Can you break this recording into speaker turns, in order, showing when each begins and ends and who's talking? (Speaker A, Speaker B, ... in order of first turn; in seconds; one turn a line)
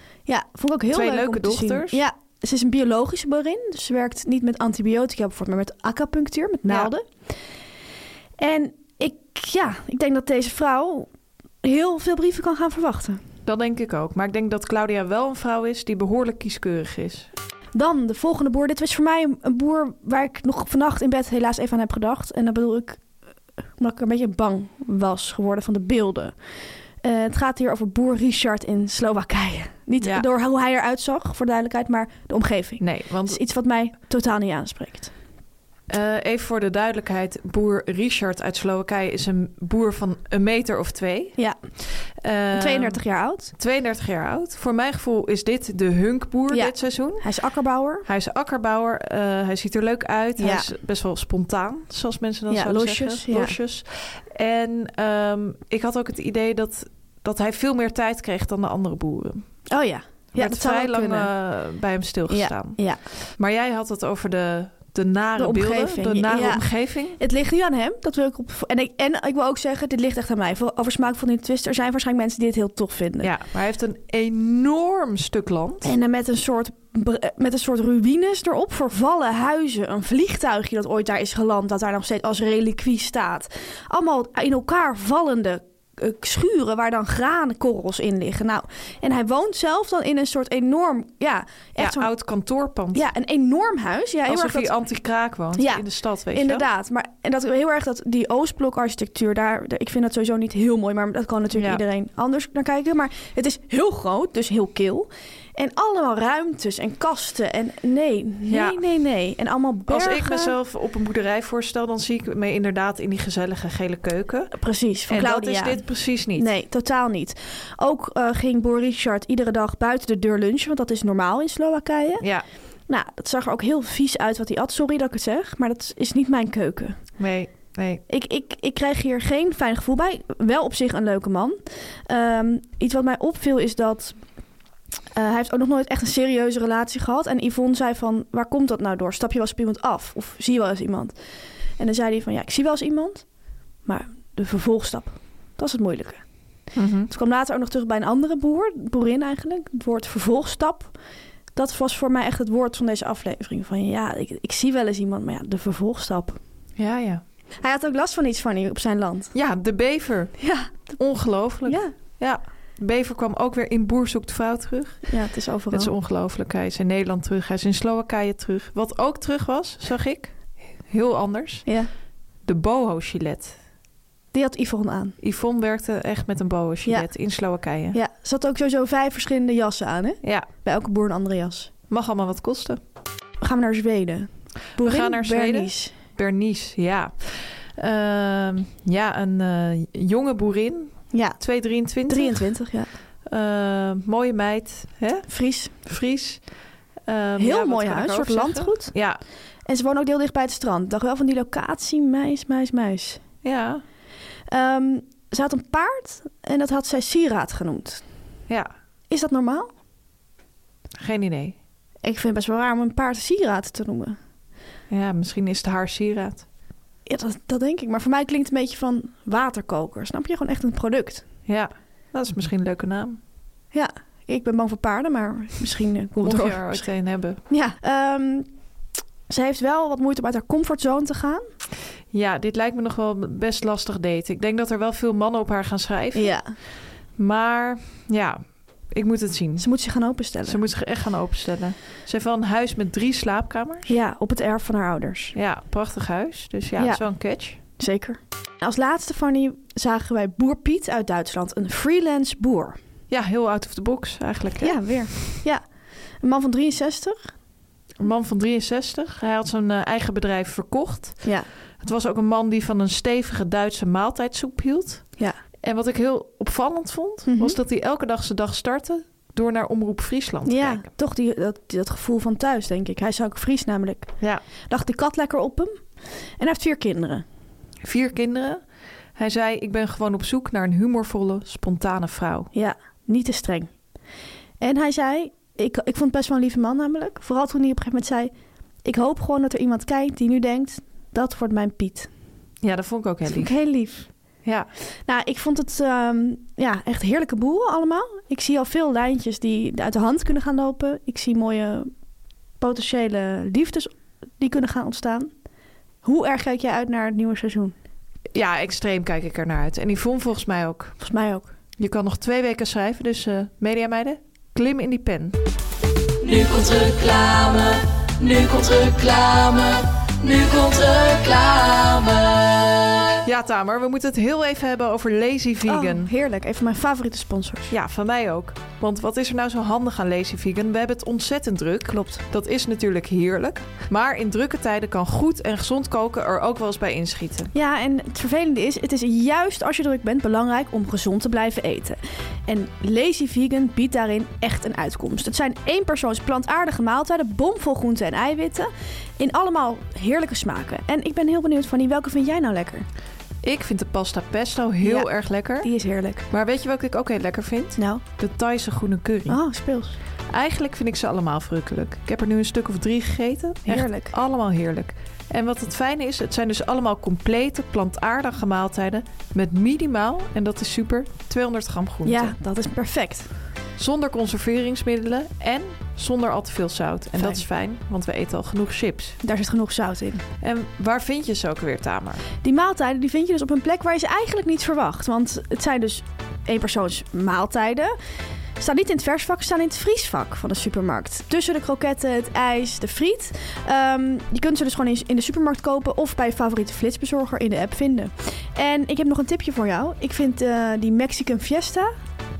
Speaker A: 0.3-7.1
Speaker B: 0.9-2.0
Speaker A: 8.4-11.1
Speaker A: 11.6-13.2
Speaker B: 13.5-17.3
Speaker A: 17.7-23.0
Speaker A: 23.8-26.4
Speaker A: 27.0-35.1
Speaker B: 30.0-30.3
Speaker B: 32.8-33.4
Speaker B: 35.9-43.0
Speaker A: 42.5-43.5
Speaker B: 43.5-47.2
Speaker A: 46.5-48.1
Speaker B: 48.1-59.5
Speaker A: 50.4-50.7
Speaker A: 52.5-53.5
Speaker A: 59.7-61.3
Speaker B: 60.4-67.2
Speaker A: 62.3-63.0
Speaker A: 65.4-73.3
Speaker B: 73.2-75.9
Speaker A: 75.8-92.1
Speaker B: 91.8-93.0
Speaker A: 92.9-94.7
Speaker B: 94.3-96.7
Speaker A: 95.6-110.5
Speaker B: 101.5-101.8
Speaker B: 108.5-108.8
Speaker B: 109.9-114.5
Speaker A: 114.6-122.2
Speaker B: 115.1-116.5
Speaker A: 122.9-127.0
Speaker B: 127.2-128.0
Speaker A: 128.1-134.2
Speaker A: 135.2-141.2
Speaker A: 141.8-143.2
Speaker A: 143.8-146.2
Speaker B: 146.8-147.1
Speaker A: 147.1-150.9
Speaker A: 151.6-156.4
Speaker B: 156.8-157.2
Speaker A: 157.6-159.3
Speaker B: 159.3-165.2
Speaker A: 160.4-161.0
Speaker A: 161.7-161.9
Speaker A: 165.1-165.9
Speaker B: 165.7-170.4
Speaker B: 170.9-171.7
Speaker B: 172.4-173.6
Speaker A: 174.3-175.2
Speaker B: 175.2-178.0
Speaker A: 176.8-177.1
Speaker A: 177.9-181.7
Speaker B: 181.9-182.8
Speaker A: 183.4-185.9
Speaker B: 184.8-192.6
Speaker A: 191.1-191.4
Speaker A: 192.1-192.9
Speaker B: 193.3-196.5
Speaker A: 195.3-195.7
Speaker B: 197.1-199.2
Speaker A: 197.4-198.9
Speaker A: 199.7-203.2
Speaker B: 203.4-203.8
Speaker A: 204.5-208.0
Speaker A: 209.1-209.7
Speaker B: 211.0-211.6
Speaker A: 212.0-214.2
Speaker B: 214.9-216.5
Speaker A: 217.1-221.2
Speaker B: 221.5-223.2
Speaker A: 223.7-226.9
Speaker B: 226.2-227.4
Speaker A: 227.5-228.5
Speaker A: 229.3-231.5
Speaker B: 232.1-236.4
Speaker A: 236.2-236.6
Speaker B: 237.2-239.7
Speaker A: 239.6-240.6
Speaker B: 240.4-243.9
Speaker A: 243.9-245.3
Speaker B: 245.3-247.6
Speaker A: 246.8-247.0
Speaker A: 247.8-252.8
Speaker B: 253.1-254.9
Speaker A: 254.6-255.7
Speaker A: 256.2-257.3
Speaker B: 258.0-270.9
Speaker A: 261.2-261.5
Speaker A: 267.3-267.6
Speaker A: 270.5-274.1
Speaker A: 274.7-275.7
Speaker A: 276.4-277.2
Speaker B: 277.8-278.6
Speaker B: 279.2-282.5
Speaker A: 282.5-283.7
Speaker A: 284.6-288.3
Speaker A: 288.9-292.1
Speaker B: 292.6-293.5
Speaker A: 293.3-294.1
Speaker A: 295.1-301.9
Speaker A: 302.6-305.3
Speaker A: 306.0-307.8
Speaker B: 308.3-311.0
Speaker A: 311.0-311.5
Speaker B: 311.8-315.4
Speaker C: 316.2-323.1
Speaker B: 323.2-326.1
Speaker A: 325.7-327.7
Speaker B: 327.7-337.5
Speaker A: 331.9-332.2
Speaker A: 337.5-352.9
Speaker B: 353.4-355.7
Speaker A: 354.8-355.1
Speaker A: 355.6-356.3
Speaker B: 356.3-359.4
Speaker A: 357.8-358.0
Speaker A: 359.3-360.0
Speaker B: 360.3-372.4
Speaker A: 363.6-364.1
Speaker A: 372.1-373.3
Speaker B: 373.8-379.2
Speaker A: 377.2-377.4
Speaker A: 379.2-380.2
Speaker B: 380.4-382.2
Speaker A: 382.4-387.9
Speaker A: 388.6-401.9